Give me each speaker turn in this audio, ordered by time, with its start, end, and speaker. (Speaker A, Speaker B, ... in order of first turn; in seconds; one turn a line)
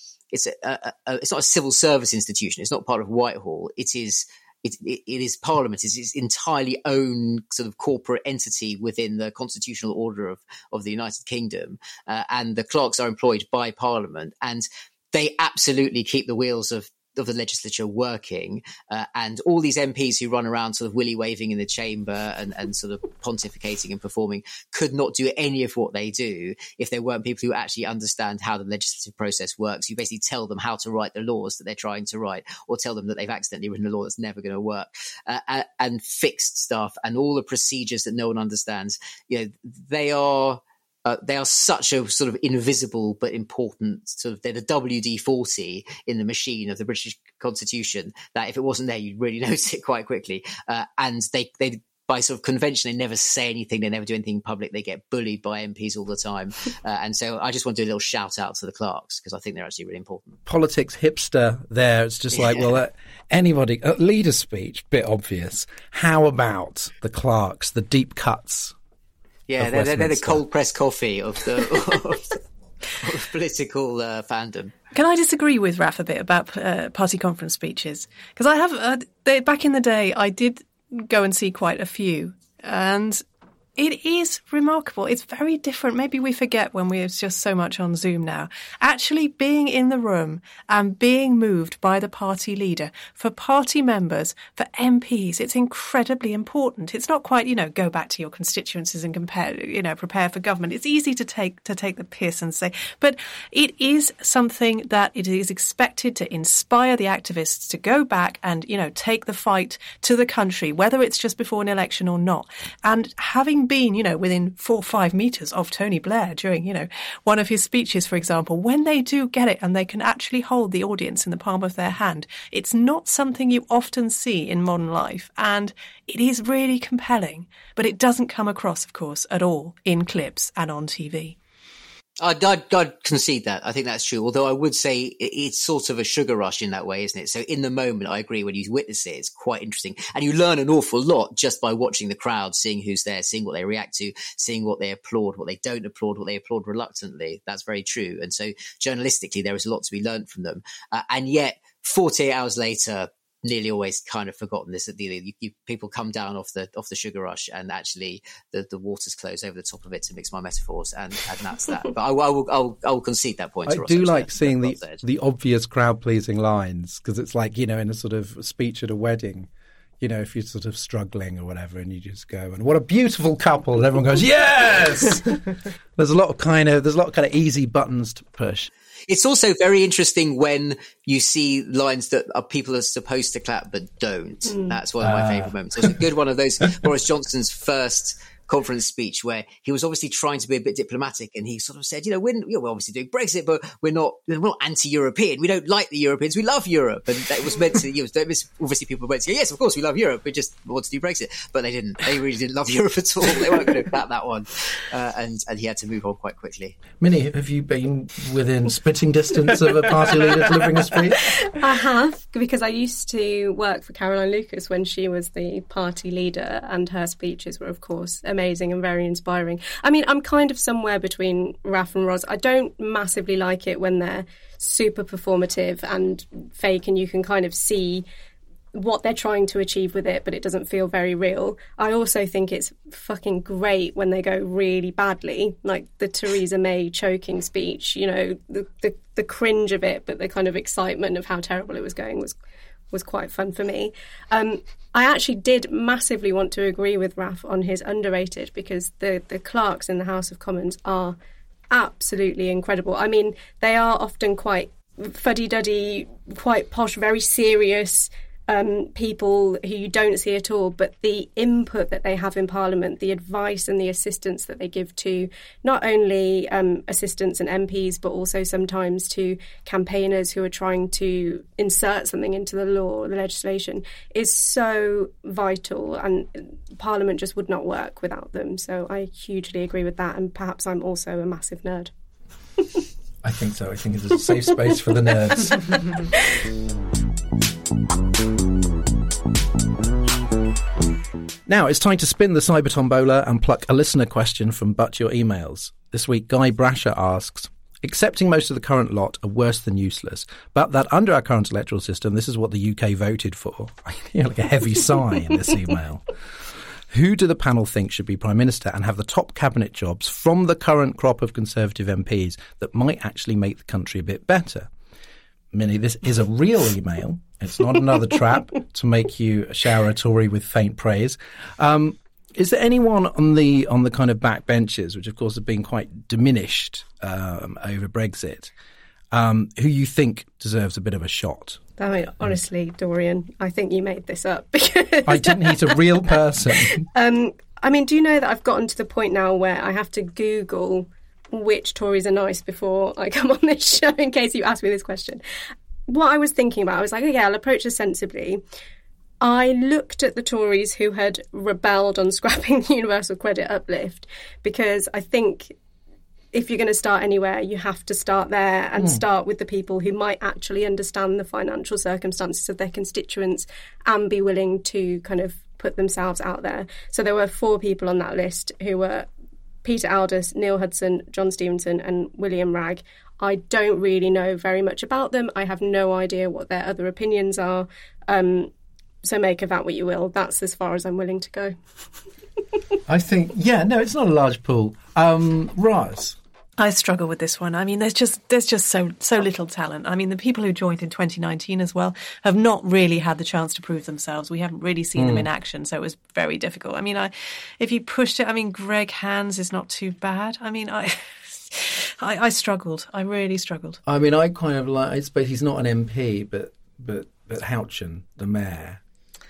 Speaker A: 0.3-60.4
Speaker B: 60.5-68.7
Speaker A: 62.4-62.6
Speaker A: 69.5-72.4
Speaker B: 69.6-70.4
Speaker A: 72.9-74.7
Speaker C: 74.9-83.2
Speaker C: 83.8-131.3
Speaker A: 132.2-165.0
Speaker B: 163.7-169.5
Speaker B: 170.0-178.7
Speaker A: 179.1-206.8
Speaker B: 185.0-185.9
Speaker B: 207.0-211.4
Speaker D: 211.4-228.0
Speaker D: 228.7-242.3
Speaker D: 242.9-251.2
Speaker D: 251.7-281.9
Speaker B: 283.2-285.8
Speaker B: 291.5-314.7
Speaker B: 315.5-328.5
Speaker B: 329.1-331.6
Speaker D: 331.8-335.8
Speaker B: 335.1-336.9
Speaker D: 336.6-345.2
Speaker D: 345.9-348.4
Speaker D: 349.2-355.6
Speaker D: 356.3-369.1
Speaker D: 369.6-378.5
Speaker D: 379.0-381.6
Speaker B: 382.9-386.2
Speaker C: 386.6-403.8
Speaker B: 394.9-395.3
Speaker B: 403.9-408.8